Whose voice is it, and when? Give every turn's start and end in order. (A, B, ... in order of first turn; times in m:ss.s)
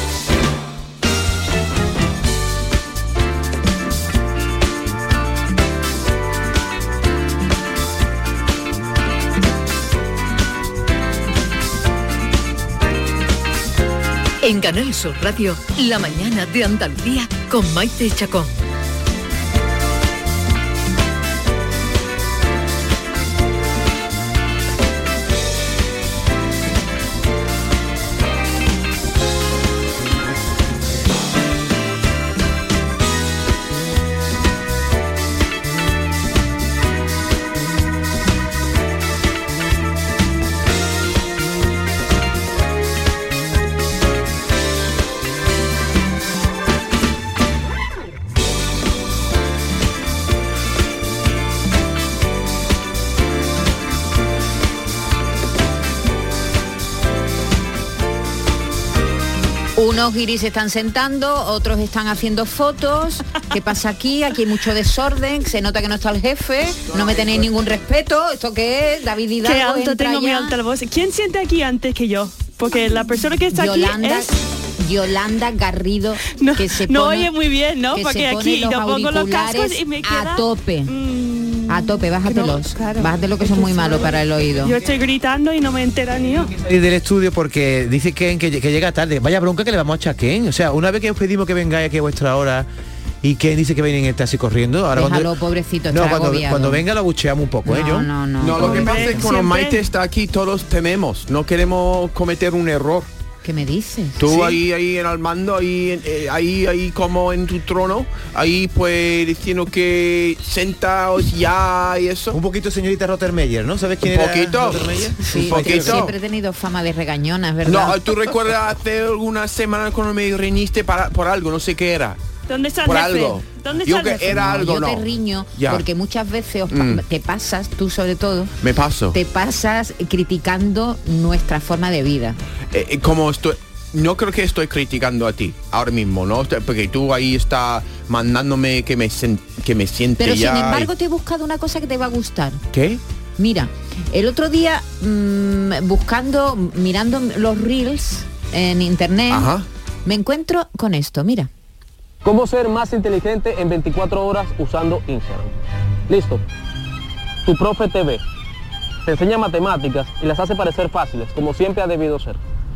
0:14.4-0:18.6 A
0:59.8-1:10.6 B
1:06.9-1:07.5 C
1:09.4-1:14.4 D
1:13.5-1:17.3 B
1:16.3-1:26.5 D
1:17.9-1:20.9 B
1:21.7-1:24.8 B
1:26.5-1:32.7 E
1:33.2-1:35.3 E
1:34.9-1:36.8 B
1:35.9-1:38.1 E
1:37.6-1:39.3 B
1:38.4-1:43.1 C
1:38.6-1:39.8 D
1:43.4-1:44.6 B
1:44.2-1:52.4 C
1:52.3-1:56.1 E
1:54.0-1:56.1 C
1:55.3-1:58.0 B
1:57.6-2:02.2 C
2:02.5-2:04.4 D
2:02.8-2:05.9 C
2:04.1-2:08.6 B
2:06.7-2:07.0 C
2:08.6-2:09.2 C
2:09.1-2:12.4 B
2:12.7-2:20.9 C
2:20.2-2:22.6 B
2:22.7-2:23.0 C
2:23.4-2:29.5 B
2:29.3-2:29.6 C
2:30.0-2:31.5 B
2:32.2-2:35.5 F
2:36.1-2:36.4 F
2:37.4-2:38.2 F
2:39.1-2:42.4 F